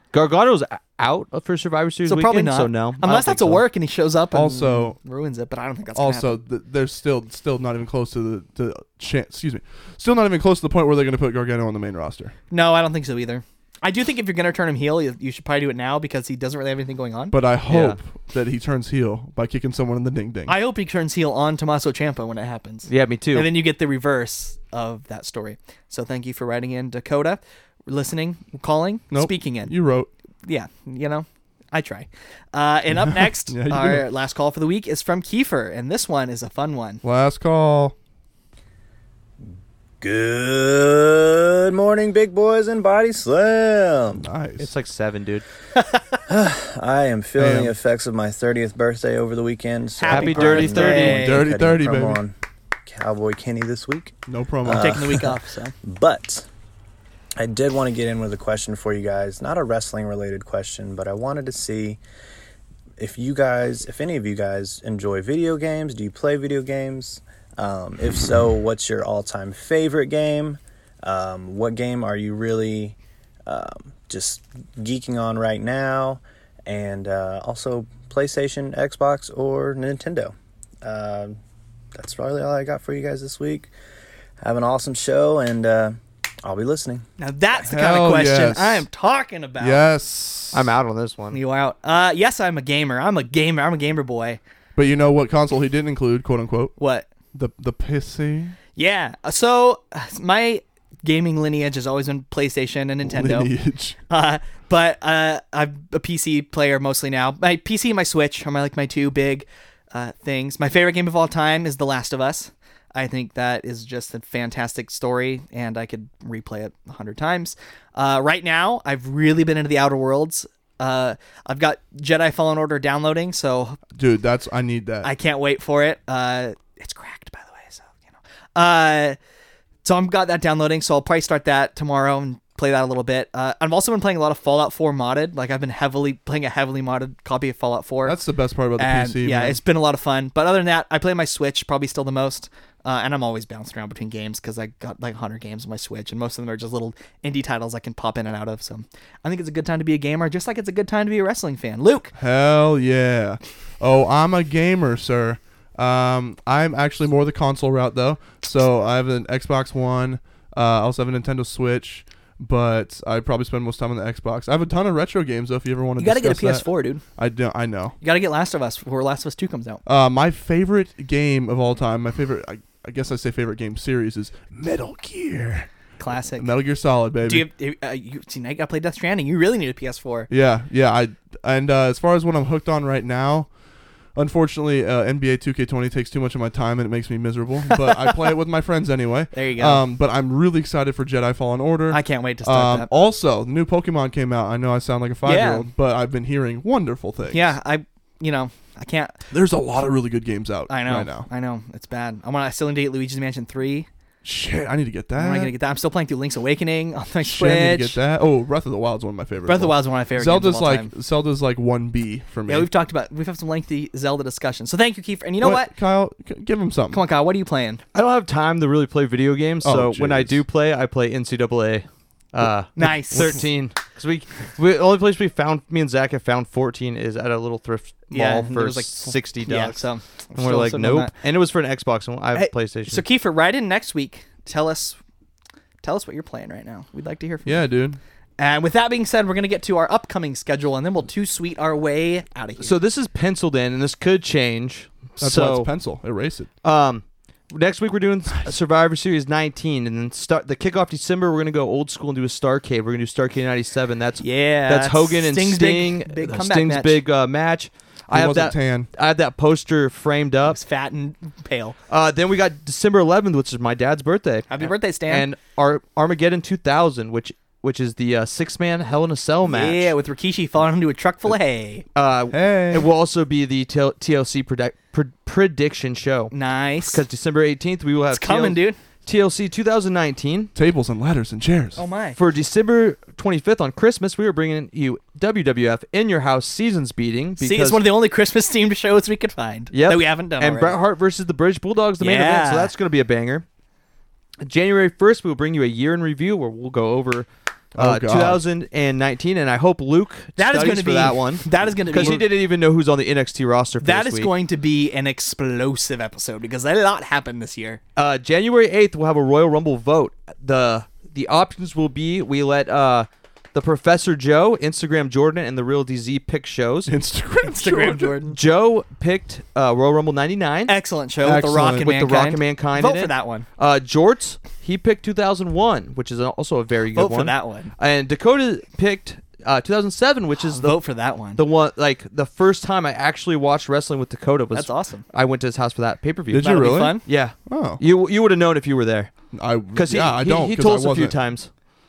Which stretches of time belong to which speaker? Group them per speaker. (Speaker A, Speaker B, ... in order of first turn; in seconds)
Speaker A: 0.1-3.6, 17.7-18.0, 22.9-23.5, 44.6-45.5, 50.1-51.2, 90.5-91.4, 217.9-233.0, 242.6-245.7, 246.6-260.6, 261.9-269.9, 272.0-280.5, 282.2-287.9, 289.7-293.4, 294.4-304.3, 308.0-316.9, 318.3-330.8, 331.4-341.5
Speaker B: 2.1-6.4, 12.5-17.4, 20.5-29.7, 30.5-37.0, 50.0-51.5, 54.7-55.7, 87.2-89.8, 91.3-94.4, 96.8-97.1, 98.8-103.5, 104.1-123.8, 125.0-129.2, 129.8-138.2, 138.8-152.1, 166.0-167.0, 168.0-169.8, 176.0-176.5, 177.2-180.3, 187.7-188.3, 189.3-189.8, 191.9-192.9, 195.2-195.7, 197.3-199.2, 200.7-203.9, 205.2-208.0, 209.5-210.9, 212.5-215.7, 216.9-217.8, 222.8-223.4, 228.1-231.1, 232.3-235.0, 235.8-237.7, 238.4-242.7, 254.2-257.0, 260.4-261.8, 264.5-265.3, 269.5-271.8, 276.3-277.0, 278.1-278.8, 281.8-282.2, 287.4-290.8, 292.0-292.7, 300.4-302.3, 303.8-307.8, 317.4-318.4, 320.7-323.5, 326.9-327.7, 330.5-331.4, 334.5-335.1, 336.4-337.0
Speaker C: 4.3-5.0, 6.0-12.3, 17.3-20.6, 29.1-30.1, 33.0-34.1, 37.0-38.0, 44.2-44.7, 47.4-47.7, 50.9-52.2, 54.3-55.1, 87.7-88.9, 89.6-90.7, 94.8-96.7, 97.3-98.6, 103.0-104.0, 123.9-125.1, 138.0-139.6, 152.2-168.0, 169.9-175.7, 176.3-177.5, 180.3-183.5, 184.2-197.6, 199.3-201.3, 204.2-205.5, 207.2-212.7, 215.4-217.0, 219.6-220.4, 237.5-238.0, 245.2-246.5, 258.1-258.9, 272.3-272.9, 280.6-281.8, 297.8-298.4, 301.9-302.2, 316.9-318.1, 336.3-337.8, 339.3-341.2
Speaker D: 40.0-44.2, 46.3-52.3, 52.9-55.3, 55.8-56.5, 57.4-62.0, 63.0-81.4, 82.0-83.7, 84.4-87.0